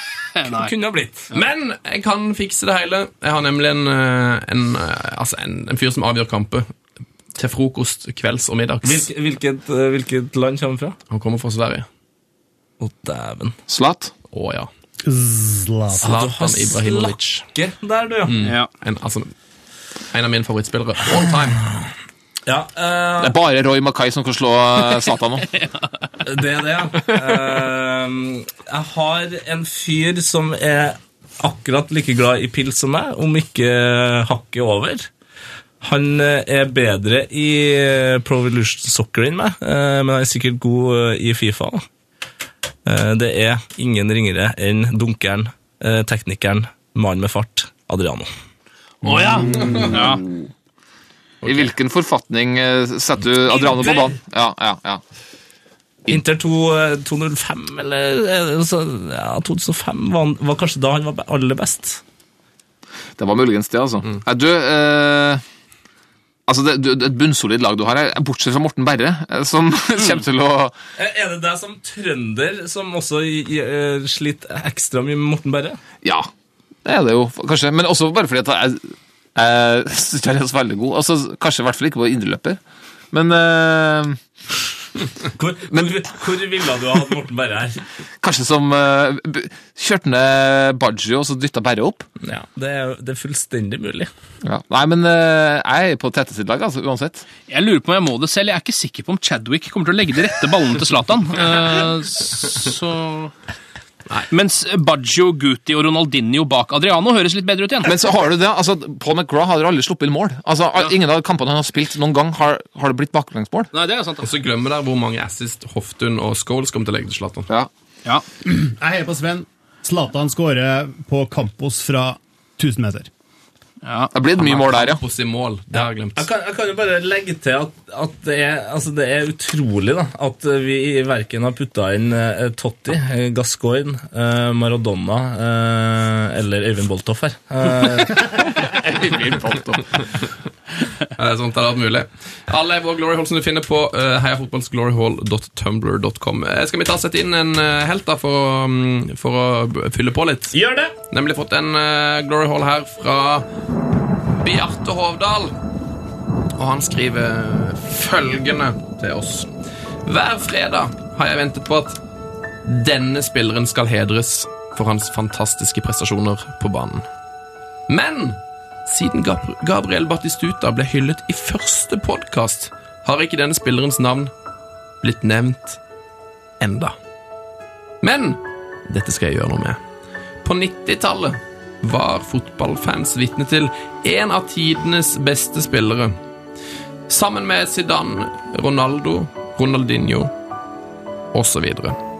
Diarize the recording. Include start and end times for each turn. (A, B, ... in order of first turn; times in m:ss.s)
0:00.3-0:00.7 A
0:00.4-0:01.3 B
0:01.3-0:06.7 C
0:07.4-0:09.1 C
0:08.8-0:11.0 B
0:11.1-0:11.9 C
0:12.8-0:13.5 B
0:13.7-0:14.1 D
0:14.3-0:14.7 C
0:15.0-0:16.1 E
0:16.0-0:17.4 C
0:16.0-0:18.4 B
0:18.2-0:19.3 C
0:18.4-0:18.7 A
0:20.1-0:21.6 C
0:22.4-0:23.4 B
0:23.2-0:25.5 D
0:26.2-0:35.1 B
0:35.8-0:41.8 B
0:42.8-0:48.3 B
0:49.0-0:49.9 C
0:49.1-0:50.2 A
0:49.4-0:50.5 D
0:51.4-0:55.0 D
0:53.5-0:54.0 B
0:56.1-1:02.0 B
1:03.2-1:05.4 D
1:06.5-1:10.7 D
1:11.0-1:15.8 B
1:16.0-1:16.3 D
1:16.8-1:22.6 D
1:23.1-1:24.2 D
1:25.4-1:27.8 B
1:25.7-1:26.0 D
1:28.2-1:32.0 D
1:32.2-1:34.1 B
1:34.4-1:37.2 D
1:37.5-1:43.3 A
1:44.3-1:48.0 A
1:47.8-1:53.7 D
1:53.7-1:54.3 A
1:54.2-1:57.5 C
1:58.5-2:03.1 E
2:03.8-2:04.1 A
2:04.1-2:05.0 D
2:04.3-2:06.3 C
2:06.2-2:18.5 B
2:18.4-2:20.2 D
2:21.2-2:30.6 C
2:30.5-2:30.9 B
2:31.1-2:33.4 C
2:34.3-2:35.5 C
2:36.6-2:39.5 C
2:40.0-2:42.0 C
2:42.6-2:47.0 C
2:47.9-2:54.3 C
2:55.0-2:55.8 C
2:56.6-2:56.9 C
2:58.0-2:59.8 C
3:00.4-3:06.2 C
3:07.1-3:10.3 C
3:11.3-3:12.0 C